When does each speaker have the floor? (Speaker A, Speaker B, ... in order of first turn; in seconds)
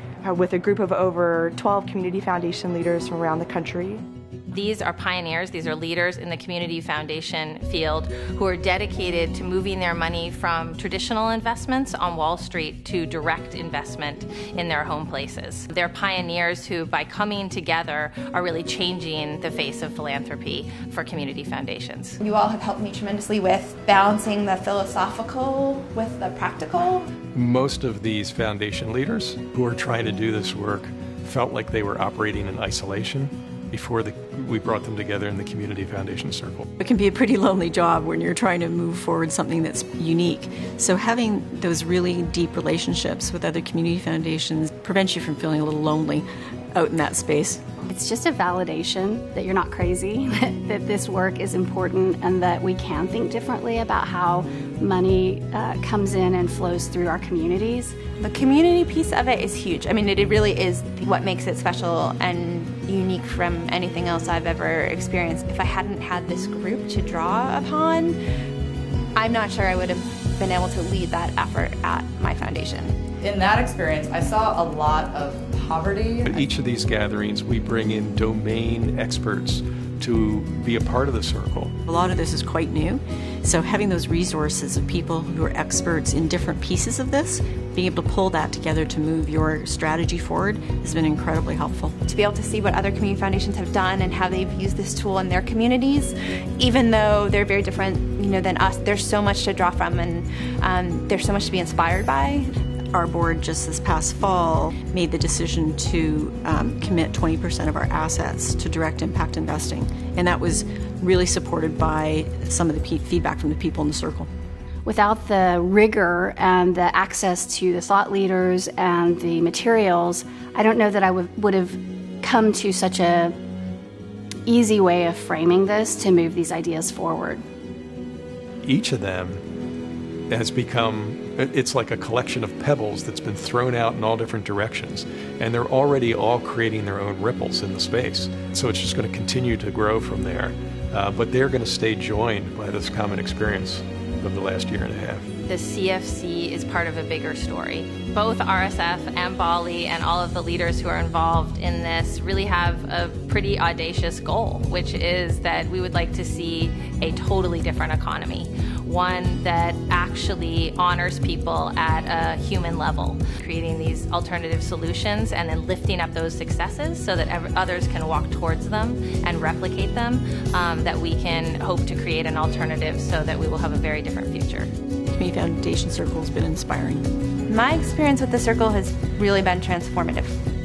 Speaker A: 0.2-4.0
Speaker B: 4.5-22.2, 145.5-174.7
Speaker C: 22.2-27.1, 58.2-68.2, 69.2-72.9, 92.1-102.5, 177.5-180.3
Speaker D: 27.3-36.6, 76.2-81.7, 128.6-129.4, 130.3-145.3
Speaker E: 36.8-47.6, 81.8-92.0, 102.9-114.3, 175.1-177.1
Speaker F: 47.9-58.0, 114.8-123.3, 124.5-127.4
Speaker G: 73.2-76.4